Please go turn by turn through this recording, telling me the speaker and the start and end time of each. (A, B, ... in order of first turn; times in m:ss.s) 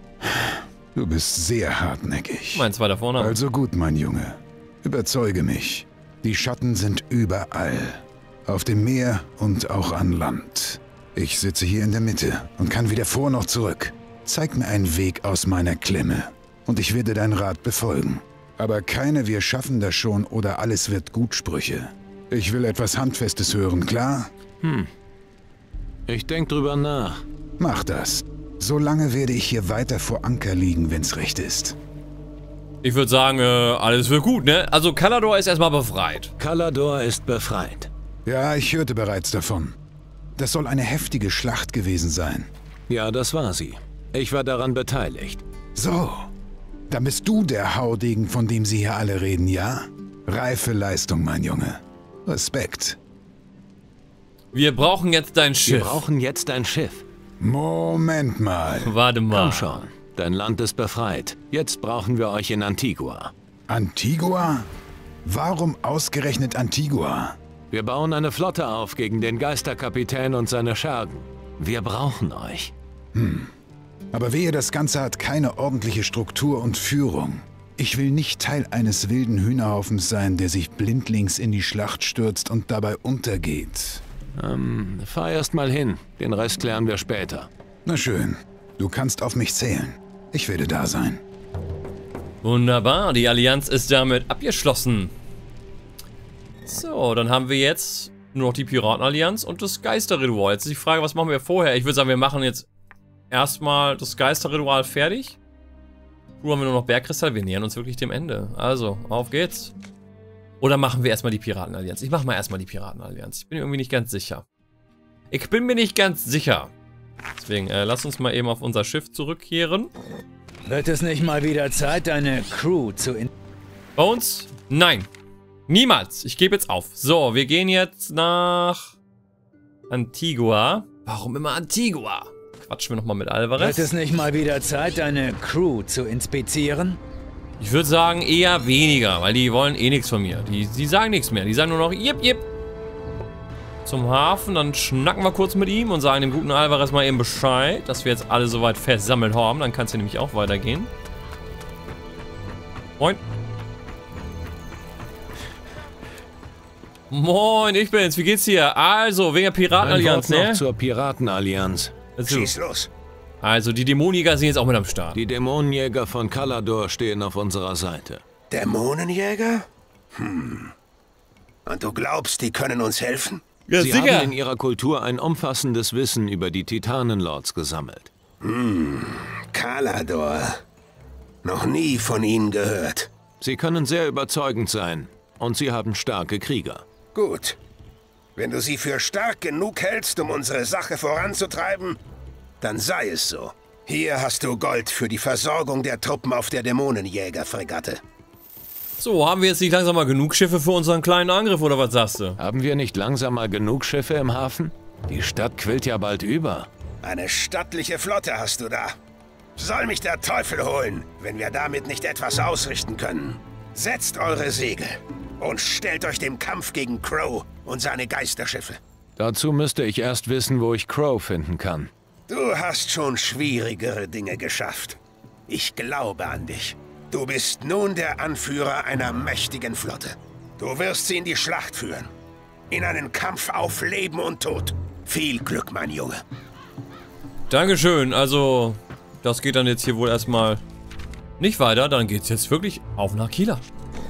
0:00.2-0:02.7 A
0:02.5-0:03.4 B
0:03.2-0:24.3 A
0:24.6-0:24.9 C
0:26.1-0:27.2 C
0:27.6-0:31.8 A
0:32.8-0:36.3 B
0:36.4-0:37.9 C
0:38.2-0:39.8 A
0:40.4-0:42.5 A
0:42.9-0:45.4 C
0:45.8-0:46.3 A
0:46.9-0:53.0 A
0:54.5-0:56.0 B
0:55.6-0:57.0 C
0:57.4-0:59.0 A
0:58.8-0:59.8 B
0:59.3-1:03.3 C
1:03.7-1:04.7 A
1:05.2-1:07.4 A
1:07.7-1:12.7 C
1:13.1-1:13.5 A
1:14.1-1:24.0 A
1:24.4-1:27.5 C
1:27.8-1:31.2 A
1:32.4-1:35.1 B
1:36.6-1:42.7 B
1:43.3-1:45.4 B
1:46.4-1:49.7 B
1:50.6-1:54.5 B
1:55.3-1:56.7 B
1:57.4-1:59.9 B
2:00.6-2:03.3 D
2:04.0-2:05.1 B
2:05.7-2:09.0 B
2:09.9-2:13.9 B
2:13.6-2:17.0 D
2:17.6-2:22.5 B
2:23.8-2:30.9 B
2:37.1-2:40.6 B
2:39.8-2:41.9 C
2:42.2-2:42.6 B
2:42.3-2:42.9 E
2:43.4-2:45.2 B
2:45.1-2:48.2 C
2:48.5-2:50.7 E
2:51.6-2:53.4 E
2:53.7-2:54.3 B
2:53.8-2:58.1 C
2:58.4-3:00.6 E
3:01.4-3:03.1 E
3:03.4-3:06.8 C
3:07.1-3:07.6 E
3:08.4-3:12.0 E
3:12.6-3:18.0 E
3:19.0-3:22.4 B
3:22.4-3:26.7 C
3:27.0-3:29.0 E
3:29.6-3:38.8 E
3:39.2-3:41.9 C
3:42.3-3:52.1 E
3:52.7-3:56.2 E
3:57.5-4:00.6 B
4:01.4-4:03.6 B